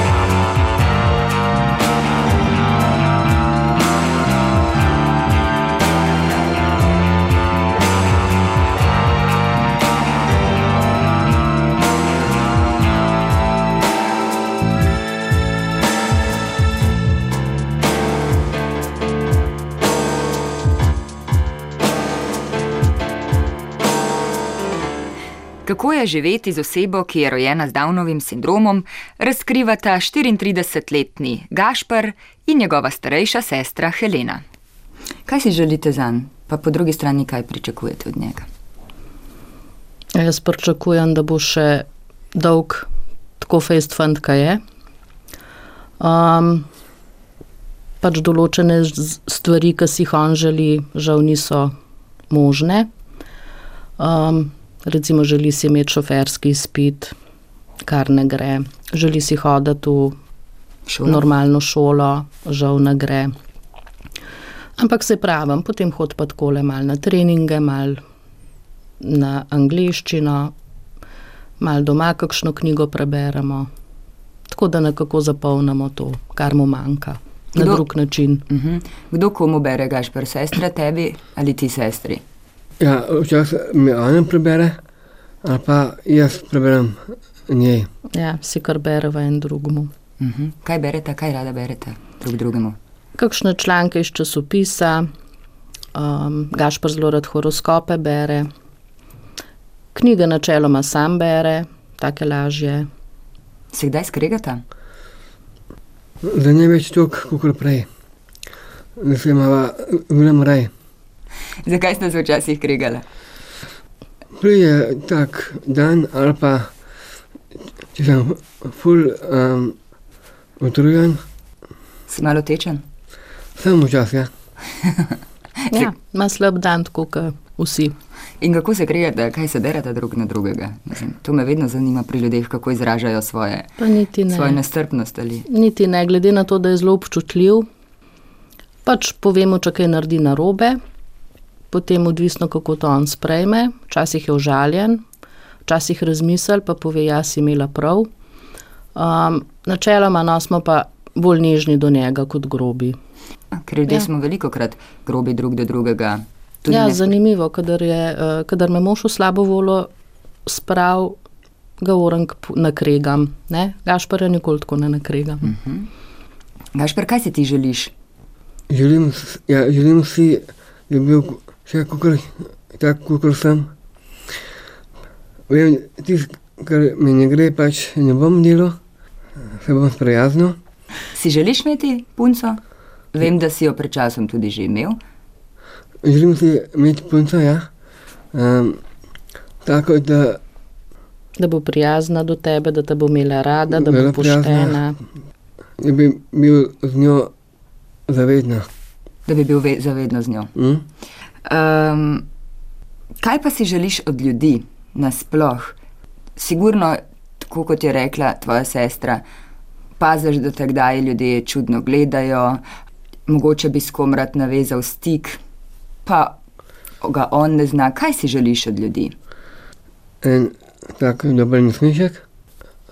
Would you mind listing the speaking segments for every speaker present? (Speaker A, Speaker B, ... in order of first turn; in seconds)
Speaker A: 25.7-34.4, 35.3-38.5, 60.9-61.2, 77.6-77.8, 78.5-82.2, 90.2-92.8, 103.7-104.6, 111.7-113.0, 122.1-122.8, 128.4-133.8, 134.3-135.4, 153.5-157.1, 165.4-165.9, 166.8-167.9, 181.1-182.6, 183.1-185.0, 199.3-200.5, 201.4-202.3, 203.2-205.8, 206.4-209.2, 210.0-212.6, 213.3-215.4, 216.1-216.4, 217.0-219.2
Speaker B: 40.1-42.9, 43.4-44.6, 46.0-46.7, 48.0-51.7, 52.3-52.9, 54.0-57.1, 57.9-60.2, 61.1-63.3, 64.8-68.0, 69.0-70.5, 71.6-73.7, 74.5-78.4, 88.2-89.9, 93.2-95.1, 95.9-98.5, 100.0-102.9, 125.7-128.0, 133.8-134.6, 135.5-137.7, 138.9-140.8, 141.7-145.0, 145.7-148.1, 148.9-153.0, 156.7-159.9, 160.5-161.2, 161.8-165.5, 191.4-195.0
Speaker C: 82.8-84.8, 85.4-87.9, 106.2-107.9, 109.0-110.7, 114.4-116.7, 117.9-119.8, 120.6-121.2, 123.6-124.3, 168.7-173.7, 175.5-178.8, 179.6-180.6, 186.0-187.7, 188.3-188.8, 189.6-190.4, 193.7-194.8, 195.8-197.3, 198.1-198.7, 200.6-200.8, 220.2-222.2